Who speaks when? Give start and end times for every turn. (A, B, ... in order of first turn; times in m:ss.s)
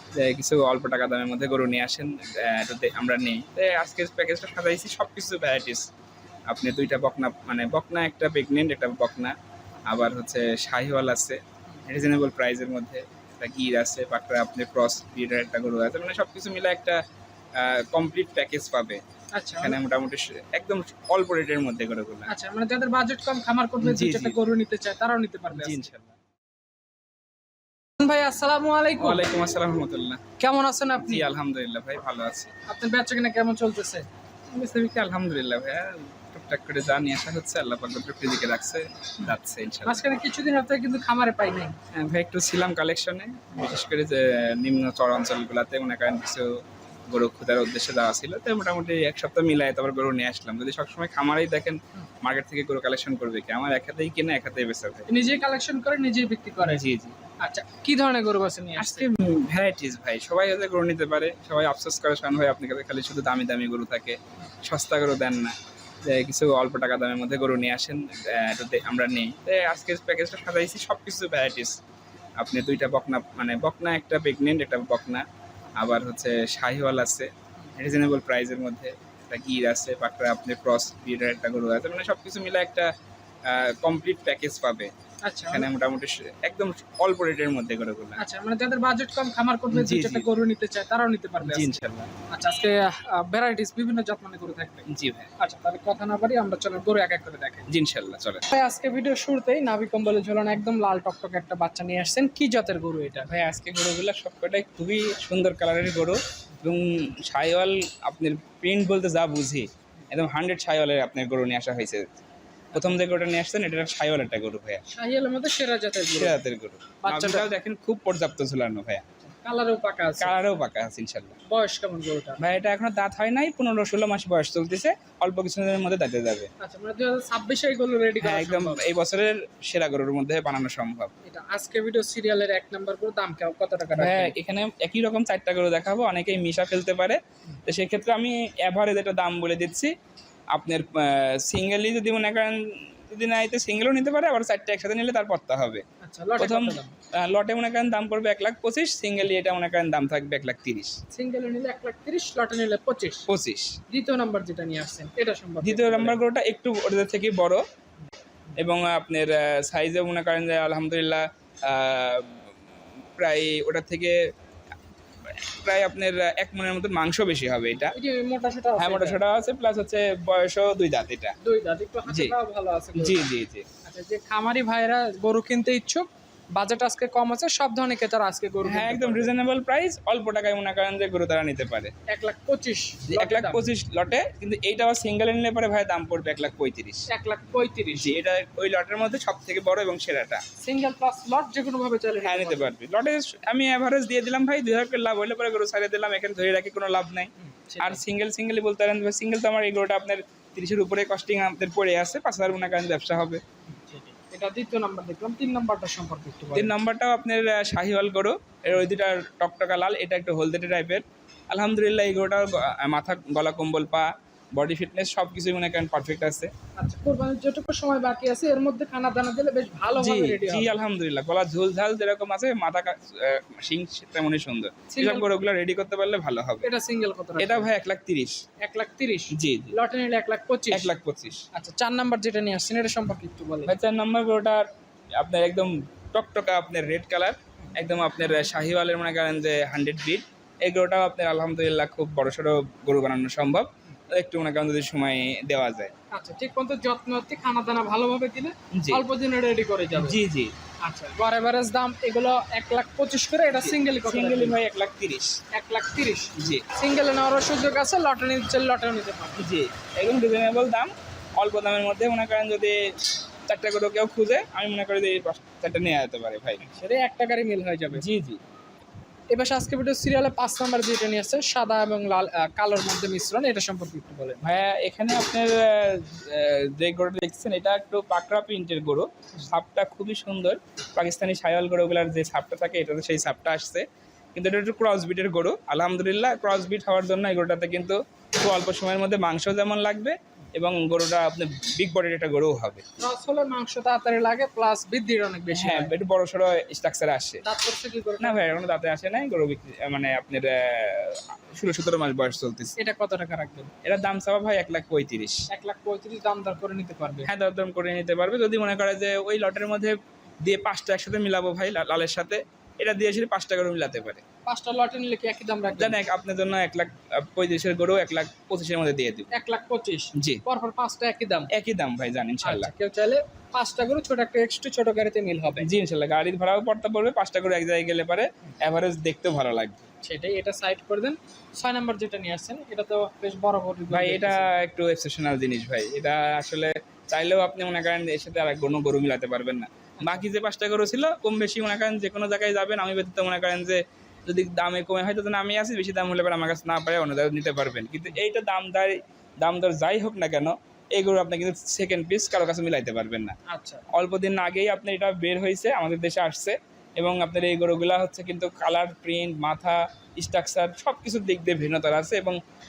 0:00.2-0:05.9 A
0:06.5-0:09.3 A
0:09.9-0:17.0 A
0:17.5-0:19.0 A
0:19.3-0:19.8 B
0:19.6-0:22.3 A
0:22.2-0:25.9 B
0:23.8-0:24.4 A
0:25.5-0:26.1 A
0:28.0-0:29.2 B
0:29.0-0:30.2 A
0:30.4-0:31.3 B
0:31.0-0:32.5 A
0:32.6-0:34.1 B
0:34.5-0:40.0 A
0:39.8-0:41.8 B
0:41.9-0:55.0 A
0:55.1-0:56.8 B
0:56.6-0:57.2 A
0:57.4-0:59.1 B
0:58.8-1:05.5 A
1:06.0-1:11.8 A
1:12.4-1:15.2 A
1:15.8-1:22.9 A
1:23.4-1:24.9 A
1:25.2-1:25.7 B
1:25.5-1:28.2 A
1:28.2-1:34.9 B
1:29.7-1:30.3 A
1:31.4-1:32.1 A
1:34.9-1:35.3 A
1:35.4-1:37.7 B
1:37.7-1:38.4 A
1:38.5-1:43.3 B
1:43.3-1:52.2 A
1:52.7-1:54.8 A
1:54.9-1:56.4 B
1:56.1-1:59.0 A
1:57.0-1:57.5 B
1:59.3-2:00.4 B
2:00.2-2:01.4 A
2:01.5-2:02.4 B
2:02.4-2:06.5 A
2:06.6-2:08.8 B
2:08.2-2:11.1 A
2:11.2-2:14.3 B
2:14.0-2:19.9 A
2:20.5-2:25.8 A
2:26.0-2:26.9 B
2:26.4-2:31.0 A
2:31.1-2:33.3 B
2:33.3-2:33.8 A
2:33.9-2:36.2 B
2:35.6-2:37.6 A
2:38.6-2:42.5 A
2:43.2-2:44.2 A
2:45.2-2:47.9 A
2:47.8-2:49.2 B
2:48.8-2:51.3 A
2:51.4-2:53.3 B
2:52.1-2:52.3 A
2:53.0-2:53.6 A
2:53.8-2:59.3 B
2:58.6-3:01.9 A
3:02.1-3:03.6 B
3:03.1-3:07.1 A
3:07.1-3:08.1 B
3:07.9-3:10.4 A
3:10.6-3:12.7 B
3:12.2-3:23.4 A
3:17.4-3:18.0 B
3:23.6-3:26.7 B
3:26.5-3:36.5 A
3:36.8-3:40.8 B
3:39.9-3:46.7 A
3:44.9-3:45.3 B
3:46.6-3:47.7 B
3:47.4-3:48.4 A
3:48.6-3:50.9 B
3:49.3-3:49.7 A
3:50.7-3:51.4 A
3:51.5-3:53.7 B
3:53.6-3:54.6 A
3:55.2-4:05.9 A
4:06.1-4:10.2 B
4:08.7-4:09.0 A
4:09.9-4:10.5 A
4:10.8-4:14.6 B
4:13.6-4:15.4 A
4:15.5-4:19.4 B
4:16.4-4:16.6 A
4:19.4-4:22.9 A
4:23.5-4:26.6 A
4:26.6-4:28.0 B
4:27.9-4:28.4 A
4:29.3-4:34.4 B
4:34.4-4:52.8 A
4:53.0-4:55.9 B
4:55.5-4:57.4 A
4:57.4-4:58.5 B
4:58.2-5:02.7 A
5:02.8-5:03.7 B
5:03.8-5:05.5 A
5:05.5-5:07.3 B
5:07.2-5:14.2 A
5:14.4-5:16.0 B
5:15.7-5:19.3 A
5:19.3-5:21.5 B
5:20.2-5:20.4 A
5:21.5-5:22.7 A
5:22.4-5:25.7 B
5:25.6-5:29.8 A
5:30.0-5:34.5 B
5:33.9-5:53.4 A
5:53.5-5:53.8 B
5:53.9-6:02.4 A